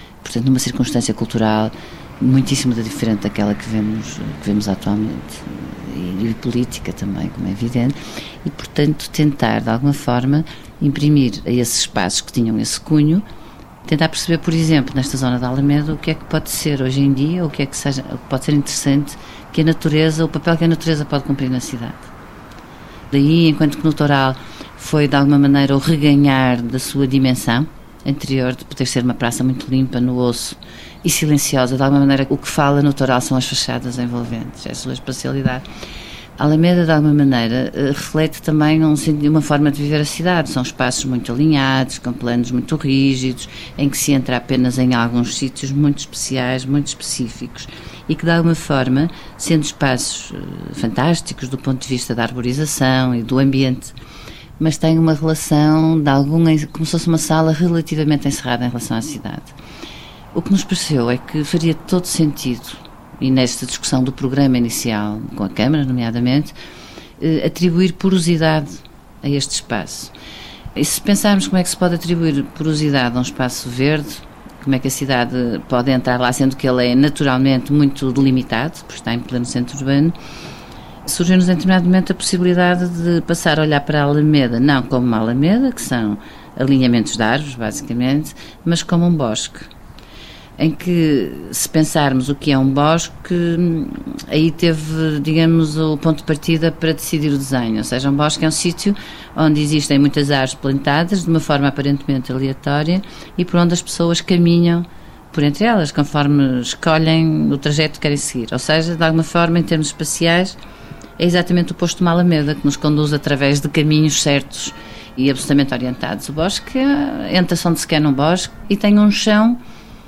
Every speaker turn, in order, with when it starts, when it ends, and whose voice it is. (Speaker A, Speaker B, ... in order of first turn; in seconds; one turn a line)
Speaker A: 0.2-13.2
Speaker A: 13.8-22.1
Speaker A: 23.1-35.6
Speaker A: 36.4-53.9
Speaker A: 54.6-59.5
Speaker A: 60.3-66.5
Speaker A: 67.2-70.1
Speaker A: 70.8-80.1
Speaker A: 81.0-89.7
Speaker A: 90.6-110.5
Speaker A: 111.2-119.6